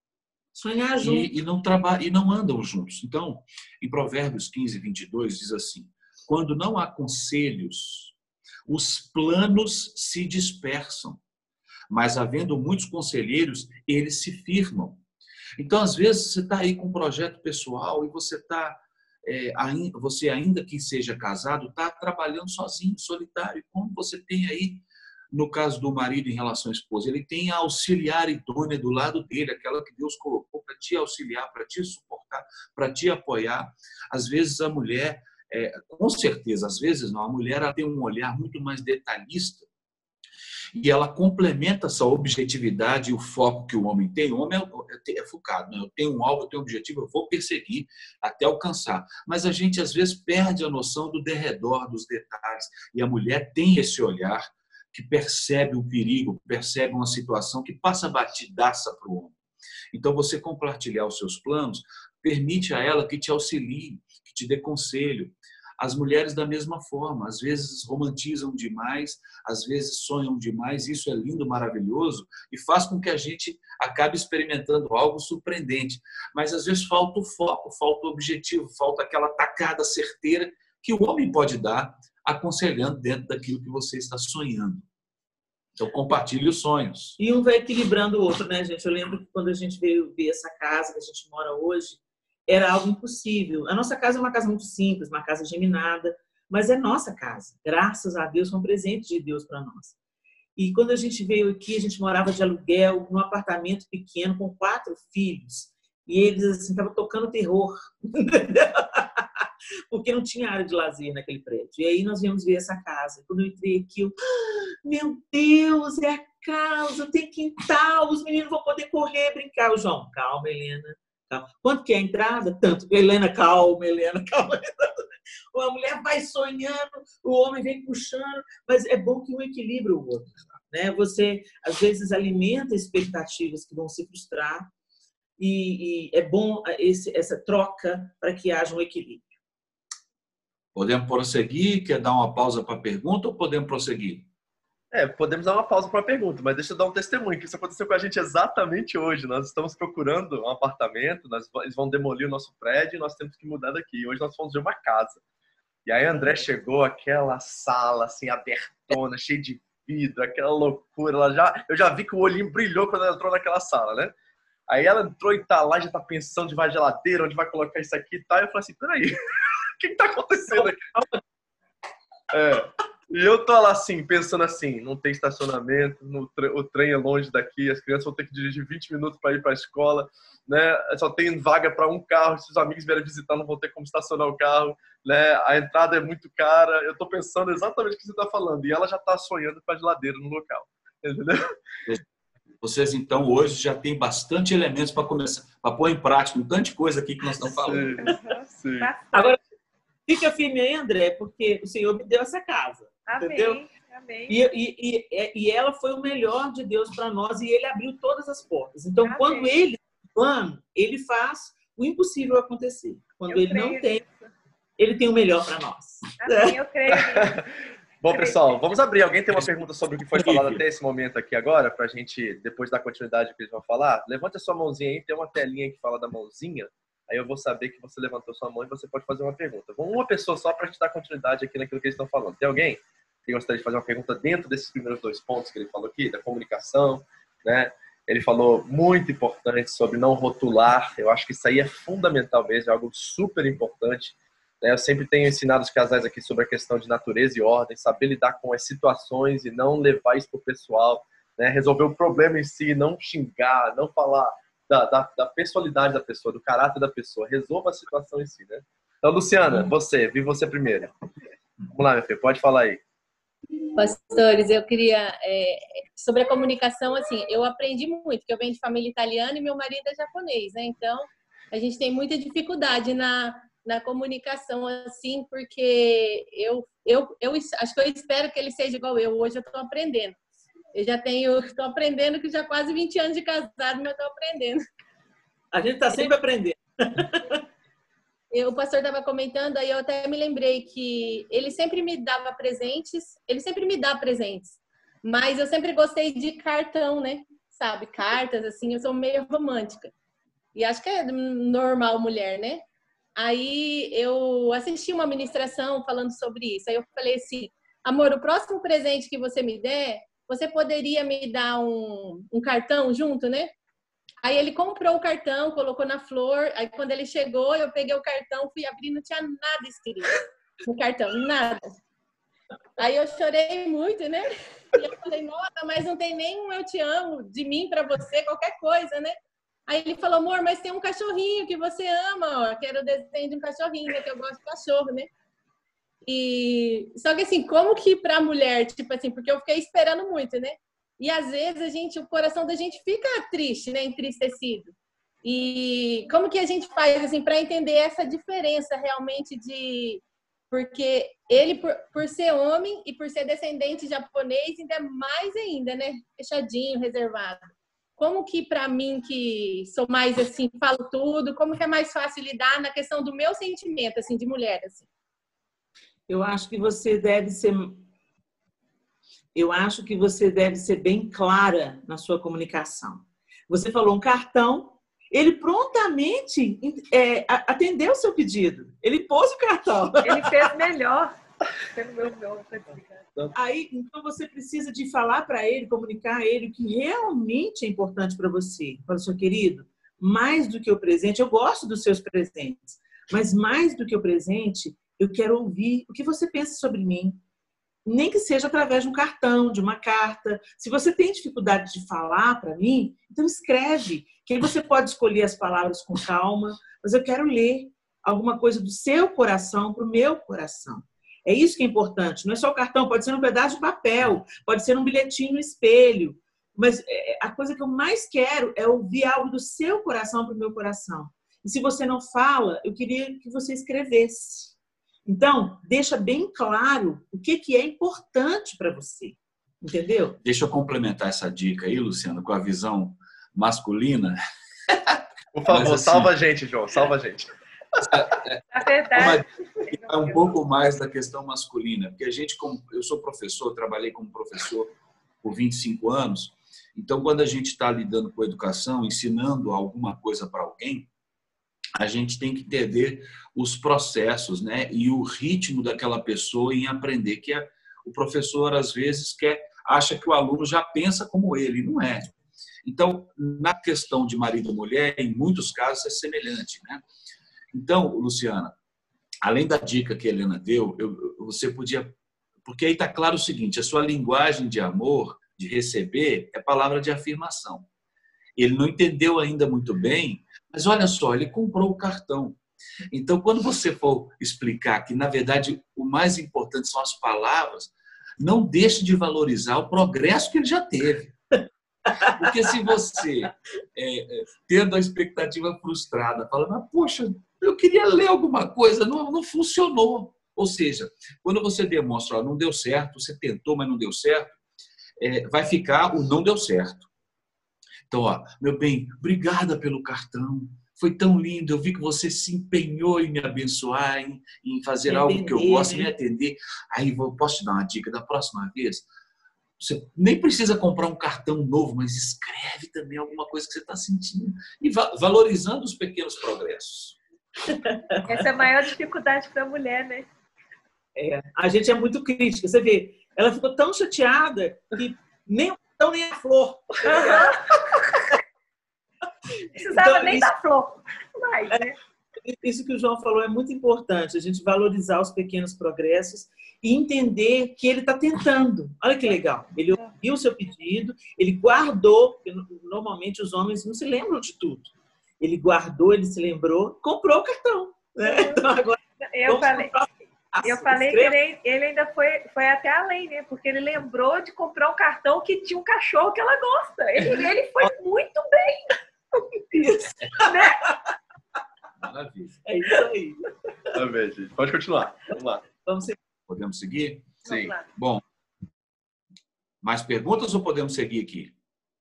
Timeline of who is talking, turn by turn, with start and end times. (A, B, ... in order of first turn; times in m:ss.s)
0:00.6-0:01.3 A
0:01.0-0:08.1 B
0:08.7-0:11.2 B
0:11.9-0:15.0 B
0:15.6-0:39.7 B
0:40.8-0:59.4 B
0:59.9-1:24.9 B
1:25.8-1:27.2 B
1:27.2-1:40.0 A
1:40.6-2:14.7 A
2:15.4-2:19.3 A
2:20.8-2:24.3 B
2:24.9-2:35.2 C
2:35.9-2:44.1 C
2:44.7-2:49.2 C
2:49.8-2:50.9 C
2:50.6-2:51.2 A
2:52.3-3:11.6 C
3:12.6-3:18.0 B
3:17.7-3:18.9 C
3:18.0-3:19.4 D
3:20.1-3:23.6 A
3:23.0-3:24.4 D
3:24.3-3:34.0 A
3:29.0-3:29.5 D
3:33.3-3:34.3 D
3:34.8-3:36.6 A
3:36.2-3:37.5 D
3:36.9-3:37.4 C
3:38.0-4:20.9 C
3:38.1-3:38.6 D
3:40.2-3:40.6 B
4:21.7-4:22.8 C
4:23.8-4:40.2 E
4:40.7-4:44.6 E
4:45.5-4:47.4 A
4:48.3-4:59.9 E
5:00.6-5:02.6 E
5:03.2-5:13.5 E
5:14.2-5:21.8 E
5:22.8-5:29.2 E
5:29.7-5:35.1 E
5:36.1-6:04.9 E
6:06.1-6:07.8 A
6:09.4-6:20.5 A
6:20.0-6:21.1 D
6:21.7-6:23.1 D
6:23.3-6:37.2 A
6:37.8-7:04.5 A
7:05.1-7:10.2 A
7:10.2-7:14.2 B
7:15.3-7:17.3 C
7:15.5-7:16.1 B
7:17.8-7:30.9 B
7:18.5-7:20.4 D
7:31.8-7:42.1 B
7:42.6-7:46.8 B
7:47.5-7:48.5 B
7:49.2-7:57.7 B
7:58.4-8:02.4 B
8:02.9-8:11.2 B
8:12.0-8:24.4 B
8:25.0-8:26.9 B
8:27.9-8:38.8 B
8:34.9-8:35.9 A
8:39.6-8:47.0 B
8:47.5-8:48.0 A
8:48.1-8:50.1 D
8:51.0-8:58.1 A
8:56.9-8:57.4 D
8:59.6-9:00.3 A
8:59.6-9:01.8 D
9:02.3-9:21.2 A
9:18.0-9:18.5 D
9:19.0-9:19.7 D
9:20.4-9:28.8 D
9:29.5-9:30.7 A
9:30.3-9:30.6 D
9:31.8-9:32.4 B
9:32.5-9:33.3 A
9:33.7-9:35.4 C
9:35.6-9:36.0 A
9:36.3-9:37.2 B
9:37.2-9:37.6 C
9:37.3-9:37.6 D
9:37.8-9:38.0 B
9:39.6-9:41.3 B